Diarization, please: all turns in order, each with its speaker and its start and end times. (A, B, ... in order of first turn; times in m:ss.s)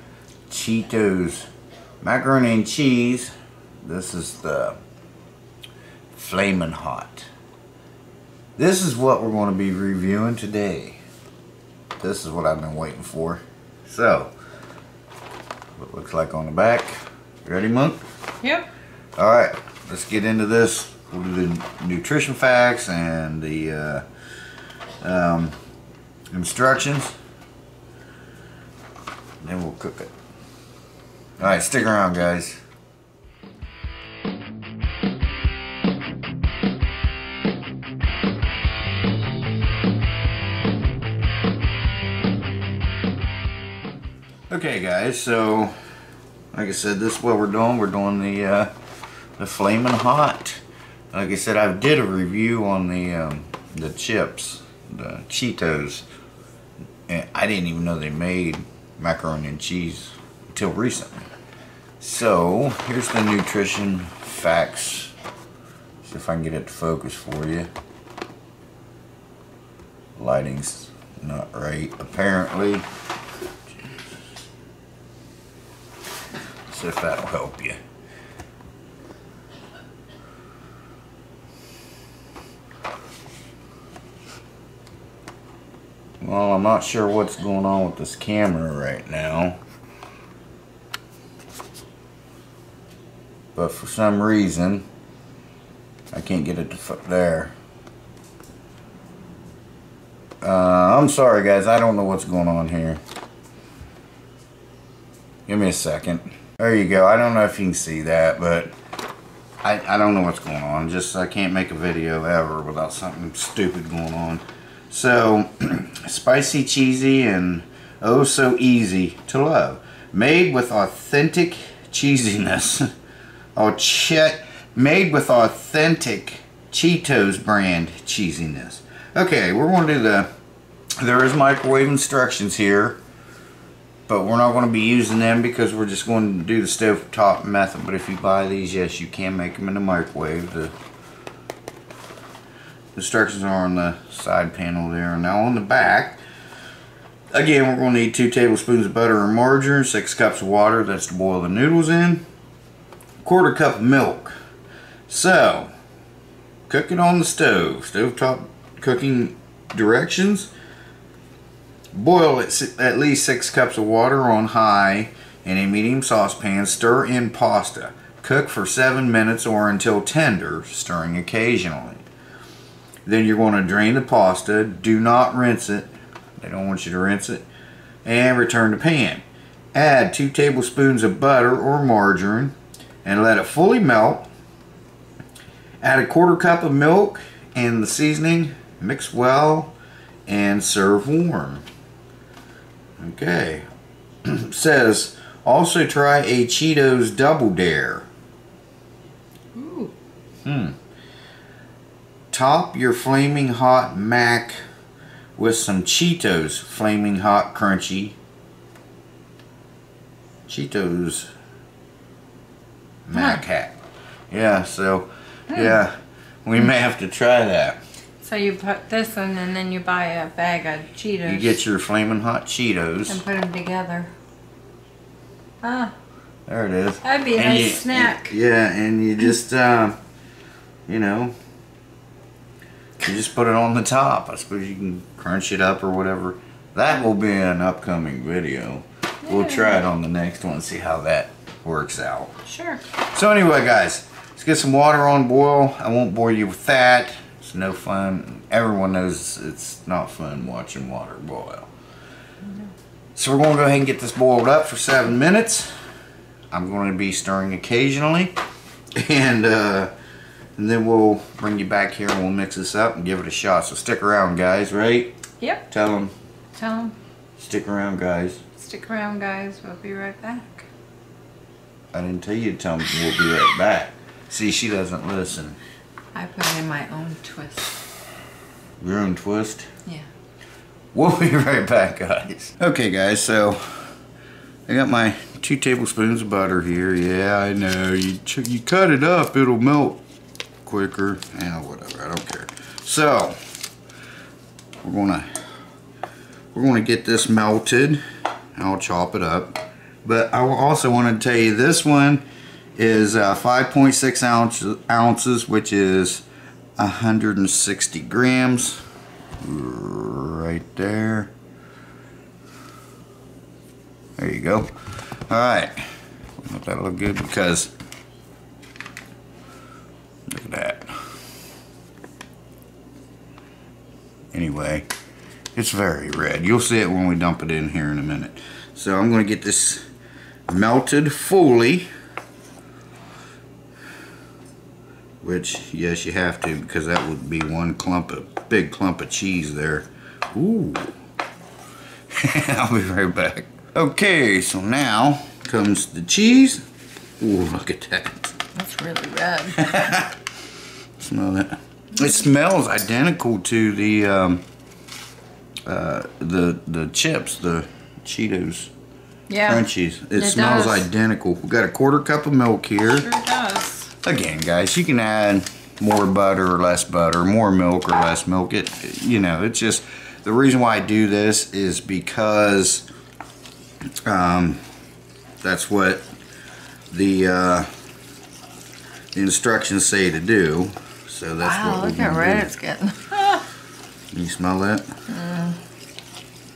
0:00.5-0:01.5 A
0:02.0-0:03.3 A
0:03.8-0:04.8 A
0:06.1-0:07.3 A
0:08.6-0:11.0 A
0:12.0-0:14.3 A
0:15.8-0:18.0 A
0:18.4-0:18.7 B
0:19.2-0:24.0 A
0:25.0-0:25.5 A
0:26.3-0:27.1 A
0:29.4-0:30.1 A
0:31.4-0:32.6 A
0:44.5-0:45.7 A
0:46.5-0:48.7 A
0:49.4-0:56.0 A
0:57.1-1:01.2 A
1:02.0-1:05.1 A
1:06.0-1:07.7 A
1:10.2-1:12.8 A
1:16.7-1:17.8 A
1:26.2-1:29.6 A
1:33.6-1:34.8 A
1:36.1-1:37.5 A
1:40.4-1:43.0 A
1:45.5-1:48.7 A
1:49.6-2:02.9 A
2:03.6-2:10.3 A
2:11.0-2:13.0 A
2:14.1-2:20.7 A
2:23.0-2:26.2 A
2:27.3-2:32.2 A
2:33.2-2:34.3 A
2:35.1-2:35.7 A
2:36.7-2:40.5 A
2:41.9-2:52.0 A
2:53.0-2:57.4 A
2:58.0-3:04.3 A
3:05.8-3:09.7 A
3:10.3-3:11.6 A
3:13.0-3:13.7 A
3:14.2-3:18.1 A
3:19.6-3:19.9 B
3:20.4-3:20.8 A
3:22.3-3:24.6 A
3:25.4-3:28.2 A
3:30.5-3:31.3 A
3:33.1-3:33.8 A
3:33.1-3:33.4 B
3:34.3-3:37.8 A
3:35.5-3:35.8 B
3:38.2-3:41.6 B
3:41.2-3:43.2 A
3:43.1-3:44.1 B
3:45.6-3:45.9 B
3:46.5-3:50.0 A
3:47.0-3:48.3 B
3:50.9-3:51.3 A
3:53.0-4:02.3 A
3:59.2-3:59.8 B
4:02.4-4:02.8 B
4:02.9-4:11.7 A
4:13.2-4:15.7 A
4:16.5-4:18.3 A
4:18.9-4:19.9 A
4:20.6-4:25.2 A
4:25.7-4:26.1 A
4:26.6-4:26.9 B
4:27.4-4:28.4 A
4:28.6-4:30.6 B
4:31.9-4:35.6 A
4:36.1-4:37.8 B
4:38.8-4:39.7 A
4:40.9-4:43.9 A
4:44.7-4:50.0 A
4:50.6-4:53.4 A
4:54.8-4:55.3 A
4:56.5-4:58.0 A
4:58.6-5:02.2 A
5:02.8-5:06.2 A
5:06.8-5:08.8 A
5:09.4-5:11.3 A
5:14.2-5:15.8 A
5:16.4-5:17.7 A
5:20.3-5:20.9 A
5:24.3-5:24.9 A
5:25.6-5:29.8 A
5:30.5-5:31.9 A
5:35.2-5:40.9 A
5:42.1-5:46.6 A
5:47.2-5:48.4 A
5:48.5-5:49.7 B
5:49.6-5:50.1 A
5:51.0-5:54.4 A
5:55.7-5:58.7 A
5:59.3-6:00.9 B
5:59.4-6:03.1 A
6:02.9-6:03.9 B
6:04.0-6:12.9 A
6:14.0-6:14.6 A
6:15.4-6:16.1 A
6:16.9-6:17.7 A
6:19.1-6:22.5 A
6:21.4-6:23.4 B
6:24.1-6:24.9 A
6:25.1-6:25.6 B